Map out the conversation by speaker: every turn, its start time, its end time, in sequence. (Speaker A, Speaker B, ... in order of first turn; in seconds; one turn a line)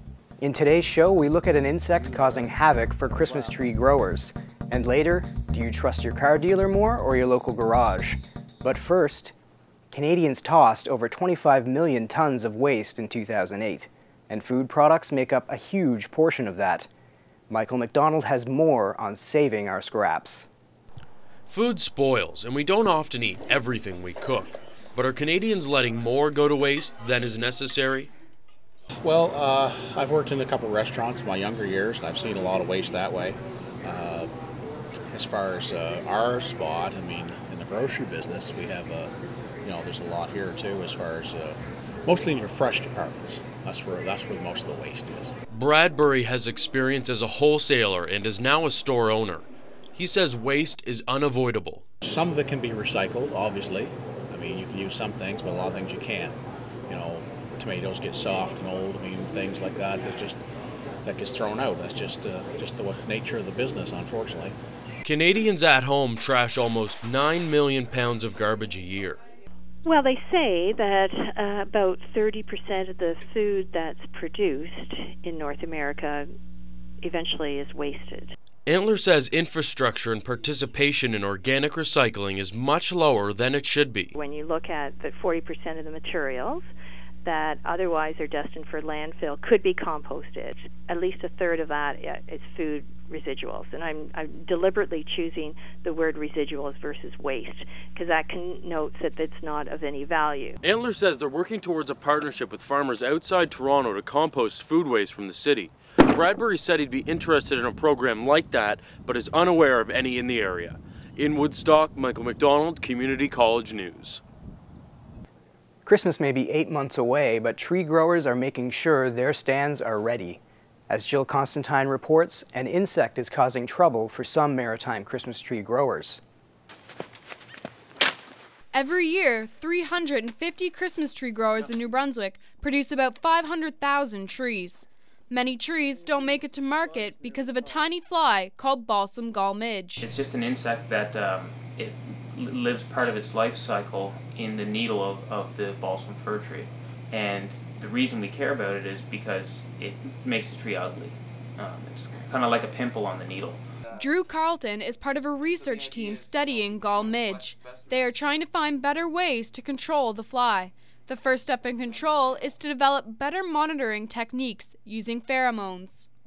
Speaker A: 0.4-9.3
Speaker A: 9.9-16.9
Speaker A: 17.5-20.5
Speaker B: 21.5-28.1
Speaker C: 29.0-34.3
Speaker C: 35.1-39.1
Speaker C: 39.6-45.3
Speaker B: 45.5-49.4
Speaker B: 50.0-51.8
Speaker C: 52.0-56.4
Speaker C: 56.9-60.4
Speaker C: 61.0-64.5
Speaker B: 65.0-69.2
Speaker D: 69.9-76.2
Speaker D: 77.0-78.2
Speaker B: 78.7-84.1
Speaker D: 84.2-86.6
Speaker D: 87.2-100.5
Speaker B: 100.6-114.2
Speaker A: 115.8-126.2
Speaker E: 128.7-140.0
Speaker F: 140.0-153.6
Speaker E: 154.0-166.1